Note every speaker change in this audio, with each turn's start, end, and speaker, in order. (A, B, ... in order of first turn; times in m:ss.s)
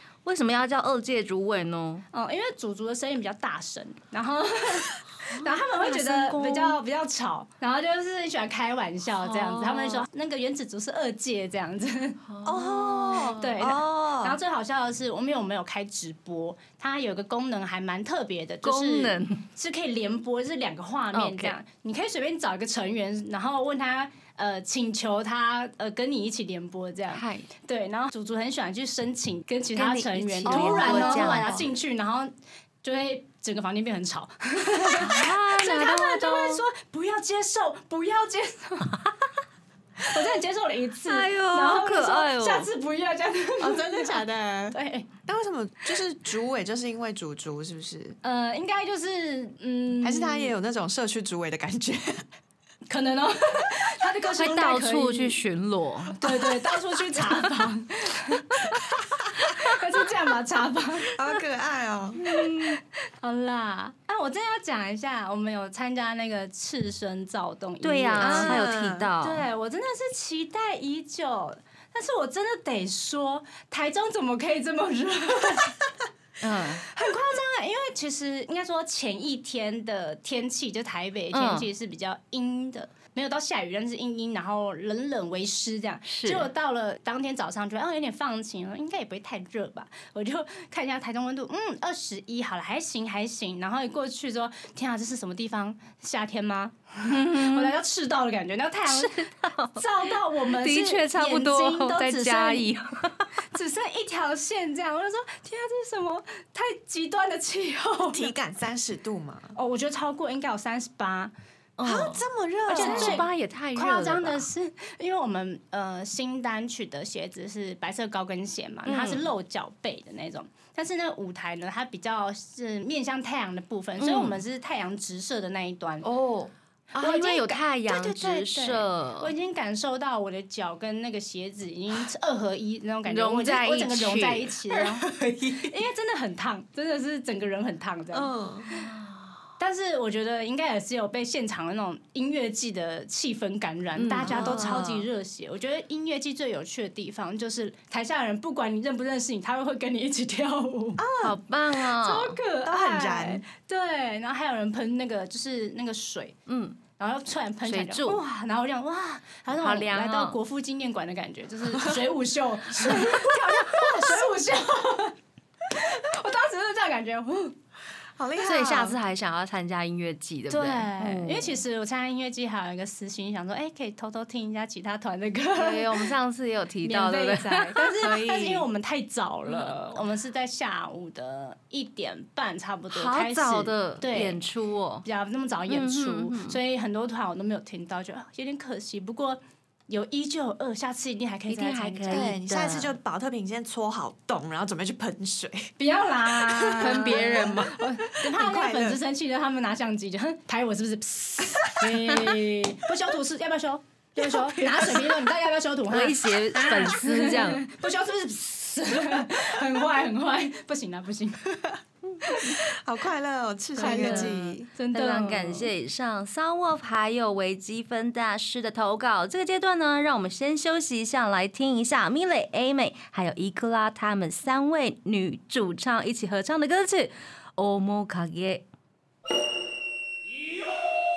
0:00.2-0:02.0 A
0:02.1-0:12.2 B
0:05.3-0:06.8 A
0:09.2-0:10.0 A
0:12.3-0:13.6 A
0:12.4-0:14.4 C
0:13.3-0:32.3 B
0:18.6-0:19.4 A
0:21.1-0:21.6 A
0:27.1-0:27.5 A
0:29.7-0:31.5 A
0:30.4-0:31.7 C
0:32.8-0:39.0 B
0:34.9-0:36.6 A
0:40.0-0:45.1 B
0:41.0-0:42.7 A
0:43.6-0:48.2 C
0:48.2-0:50.5 B
0:50.0-0:52.2 C
0:52.9-0:55.4 B
0:54.4-0:56.5 A
0:56.1-0:58.7 B
0:59.0-0:59.2 C
0:59.5-1:01.2 B
1:01.1-1:02.2 C
1:02.2-1:02.8 A
1:02.3-1:08.6 B
1:07.8-1:09.4 A
1:08.2-1:09.1 C
1:09.2-1:15.8 B
1:16.4-1:16.8 A
1:16.8-1:42.7 B
1:21.3-1:21.7 A
1:26.1-1:26.5 A
1:37.0-1:37.7 A
1:38.9-1:43.3 A
1:43.5-1:48.3 B
1:48.1-1:49.5 C
1:49.5-1:51.3 B
1:51.8-1:54.5 A
1:51.8-1:53.2 C
1:52.7-2:06.1 B
1:58.8-1:59.3 A
2:04.0-2:04.4 A
2:06.0-2:09.3 A
2:07.0-2:18.3 B
2:13.0-2:14.6 A
2:14.7-2:15.7 C
2:18.1-2:18.7 C
2:18.7-2:19.2 A
2:19.6-2:31.0 B
2:24.0-2:24.8 A
2:24.2-2:25.1 C
2:31.0-2:31.4 C
2:31.2-2:32.4 A
2:31.8-2:36.4 B
2:32.6-2:33.4 C
2:36.5-2:36.8 A
2:36.9-2:45.2 B
2:37.6-2:38.2 A
2:39.5-2:40.4 A
2:43.0-2:43.2 C
2:45.7-2:47.6 B
2:48.2-2:49.0 C
2:48.4-2:51.6 A
2:50.5-2:56.1 B
2:55.5-2:58.6 A
2:56.8-3:04.4 B
2:59.5-2:59.8 A
3:02.9-3:05.0 A
3:05.0-3:12.3 B
3:05.7-3:06.6 A
3:11.5-3:12.9 A
3:12.1-3:15.7 C
3:15.8-3:31.6 B
3:16.4-3:19.0 C
3:16.8-3:17.9 A
3:24.2-3:25.2 C
3:25.9-3:27.6 A
3:32.2-3:34.7 C
3:33.8-3:35.7 B
3:33.8-3:48.6 A